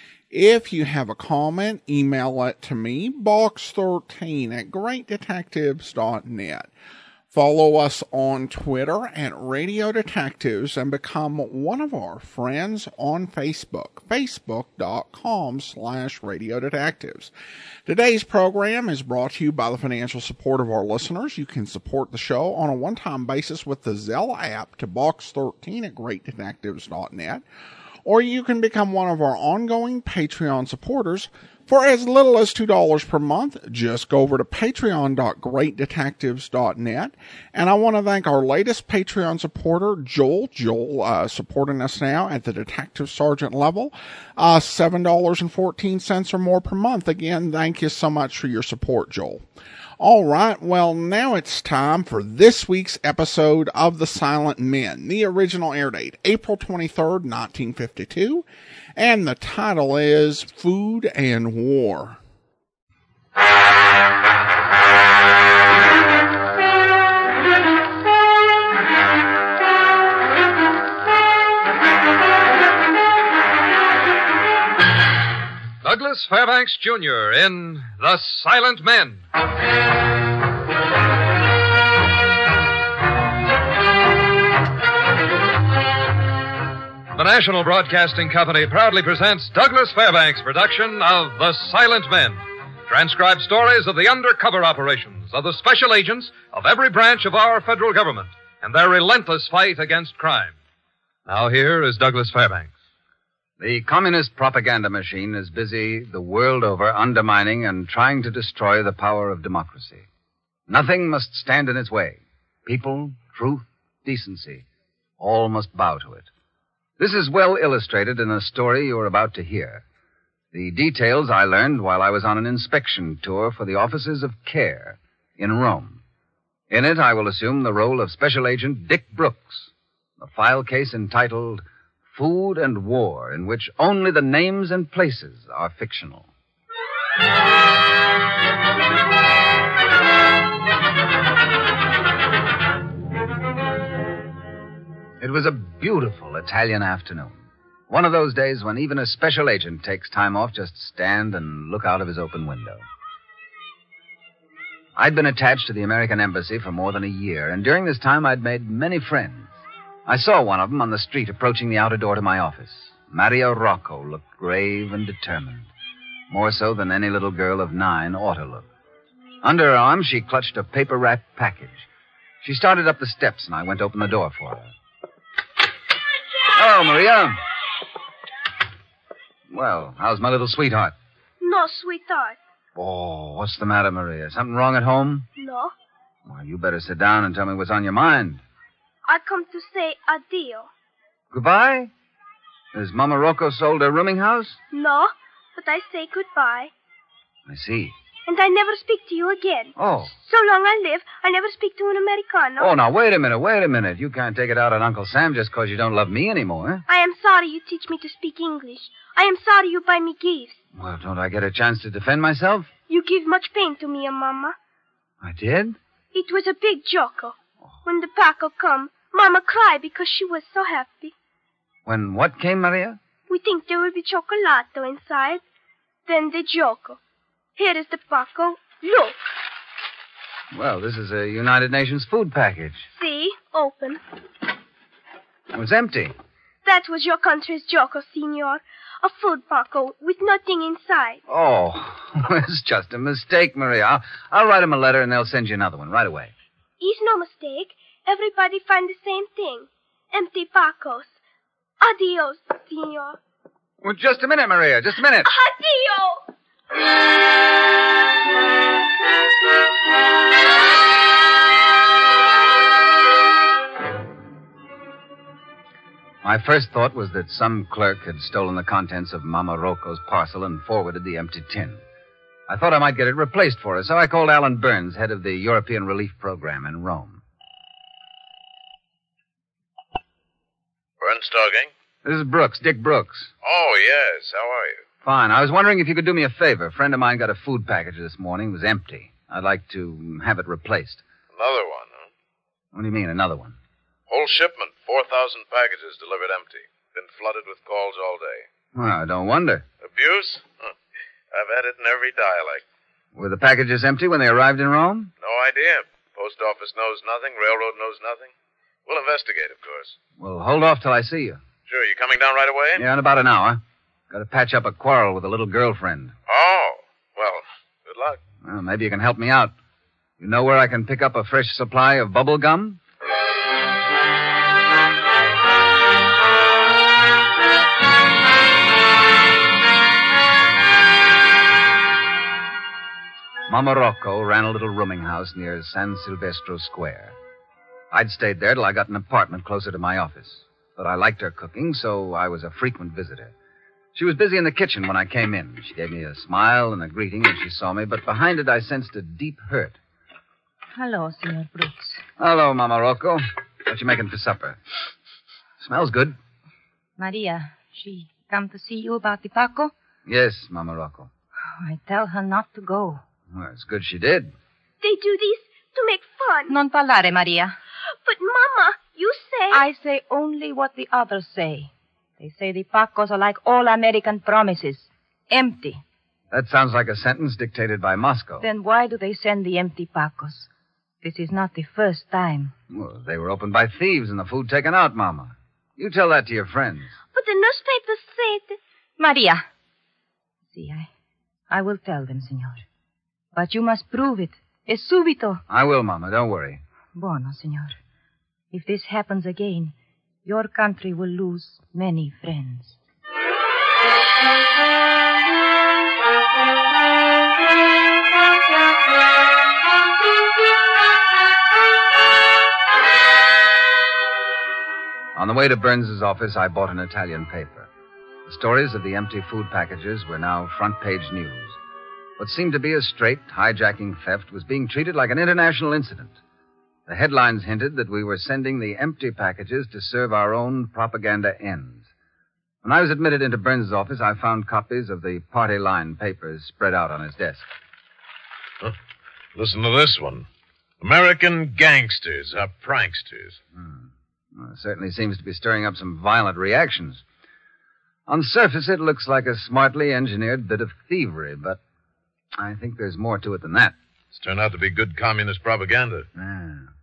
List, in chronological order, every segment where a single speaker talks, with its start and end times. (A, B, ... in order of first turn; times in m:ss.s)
0:00.3-0:06.7 A
0:07.3-0:17.3 A
0:17.9-0:27.4 A
0:28.0-0:49.4 A
0:50.0-0:58.4 A
0:59.0-1:02.2 A
1:15.8-1:19.2 B
1:27.1-1:40.6 B
1:41.3-1:42.7 B
1:43.6-1:50.1 C
1:50.7-1:54.7 C
1:55.2-1:56.3 C
1:57.0-1:59.8 C
2:00.5-2:06.0 C
2:06.7-2:16.3 C
2:25.2-2:32.8 C
2:35.0-2:45.7 C
2:46.3-2:48.7 C
2:49.4-2:51.9 C
2:52.4-2:54.7 C
2:56.5-2:57.4 C
2:59.5-3:01.0 C
3:01.4-3:02.4 D
3:02.8-3:05.3 C
3:05.4-3:05.7 D
3:06.3-3:08.4 C
3:09.1-3:10.7 D
3:11.3-3:11.9 C
3:12.7-3:14.6 C
3:14.7-3:16.7 D
3:17.5-3:18.0 C
3:18.3-3:22.7 D
3:19.8-3:20.1 C
3:22.6-3:26.8 C
3:26.9-3:30.6 D
3:30.7-3:32.7 C
3:32.9-3:34.6 D
3:35.2-3:35.8 C
3:36.1-3:41.1 D
3:41.8-3:43.0 C
3:43.3-3:45.4 D
3:46.1-3:47.0 D
3:47.6-3:49.2 D
3:50.5-3:52.9 C
3:53.0-3:54.0 D
3:55.5-3:56.2 C
3:56.6-4:01.2 D
4:01.3-4:06.3 C
4:06.8-4:11.2 D
4:11.8-4:13.2 D
4:13.8-4:15.3 C
4:15.2-4:16.2 D
4:26.2-4:31.8 C
4:32.5-4:37.2 C
4:41.0-4:41.7 E
4:42.0-4:43.3 C
4:43.4-4:44.8 E
4:45.0-4:51.0 C
4:51.3-4:52.1 E
4:52.7-4:53.6 C
4:54.1-4:58.5 E
4:58.7-4:59.6 C
4:59.8-5:00.7 E
5:01.3-5:02.6 E
5:03.1-5:05.1 C
5:05.2-5:08.3 E
5:08.9-5:10.0 E
5:10.2-5:11.4 C
5:11.7-5:12.8 E
5:12.8-5:16.2 C
5:16.3-5:18.2 E
5:18.4-5:19.5 C
5:20.2-5:22.8 C
5:33.5-5:37.2 C
5:37.9-5:43.3 C
5:44.0-5:49.8 C
5:50.7-5:52.0 F
5:52.2-5:54.6 C
5:55.6-5:56.2 C
5:57.0-5:59.7 F
6:00.1-6:01.1 C
6:01.6-6:03.0 F
6:03.3-6:04.3 C
6:04.8-6:06.5 D
6:06.5-6:07.6 F
6:08.0-6:09.6 D
6:09.5-6:15.8 F
6:16.3-6:18.4 C
6:18.4-6:20.5 F
6:21.0-6:22.5 F
6:22.7-6:26.9 C
6:27.1-6:28.6 D
6:29.0-6:29.4 F
6:30.5-6:30.9 F
6:31.5-6:32.6 F
6:33.3-6:35.4 F
6:35.5-6:36.6 C
6:37.0-6:37.8 F
6:38.5-6:39.7 F
6:40.2-6:42.8 F
6:55.2-6:57.7 C
6:58.3-7:01.6 C
7:02.2-7:06.2 C
7:06.9-7:11.9 C
7:12.6-7:17.5 C
7:19.4-7:20.3 E
7:20.8-7:23.4 E
7:23.5-7:27.0 C
7:28.1-7:31.6 C
7:32.4-7:33.8 C
7:34.1-7:36.1 E
7:36.2-7:36.7 C